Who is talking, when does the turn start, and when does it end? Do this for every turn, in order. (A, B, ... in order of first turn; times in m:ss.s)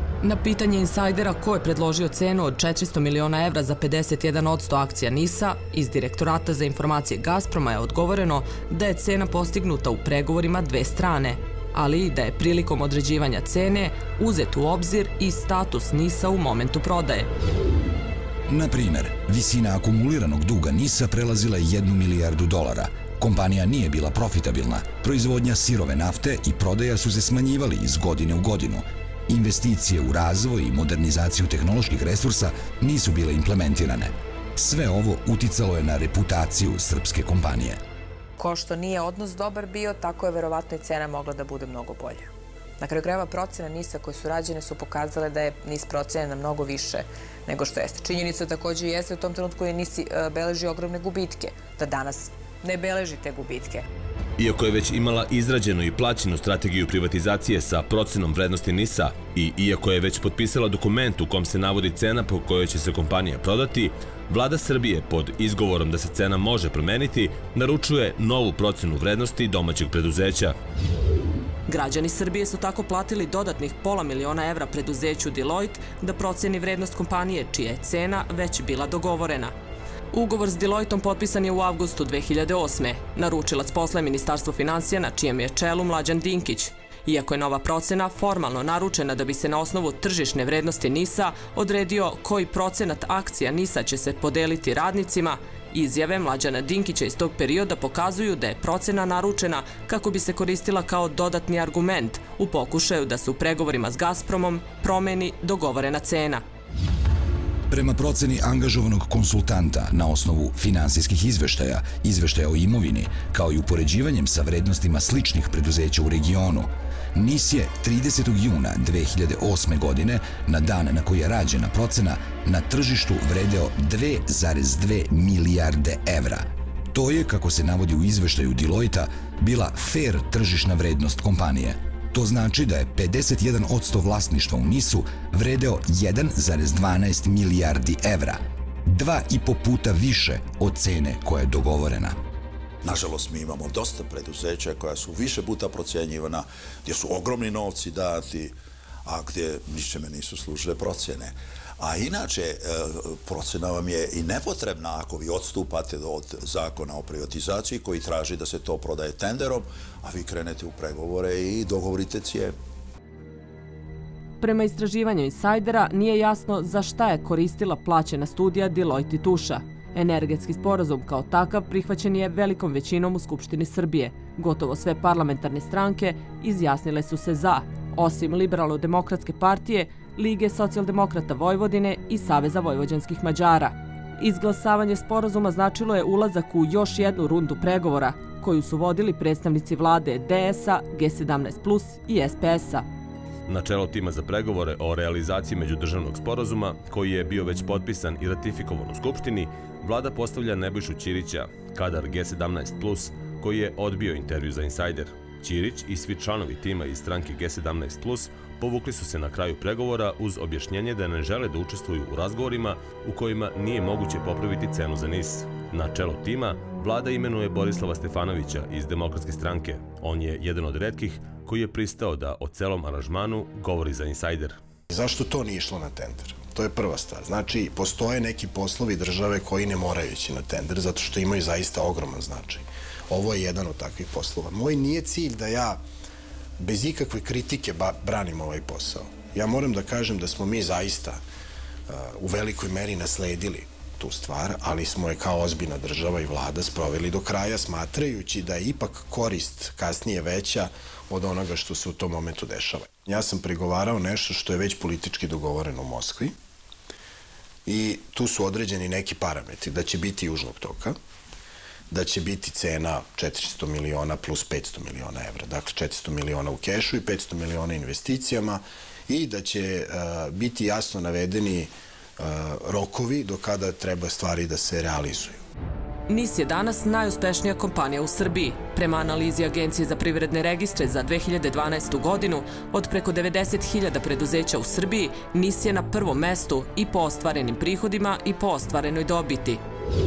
0:00.2-0:17.3 A
0:18.5-0:37.8 B
0:38.4-0:42.3 C
0:42.8-0:53.8 C
0:54.4-1:10.6 D
1:11.7-1:19.5 A
1:20.1-1:46.4 A
1:47.7-2:22.2 B
2:22.8-2:42.5 E
2:44.4-3:12.8 A
3:13.5-3:44.6 D
3:44.9-3:55.8 F
3:56.6-4:01.2 F
4:01.9-4:16.3 F
4:17.6-4:21.0 F
4:21.9-4:35.4 F
4:36.1-4:49.6 A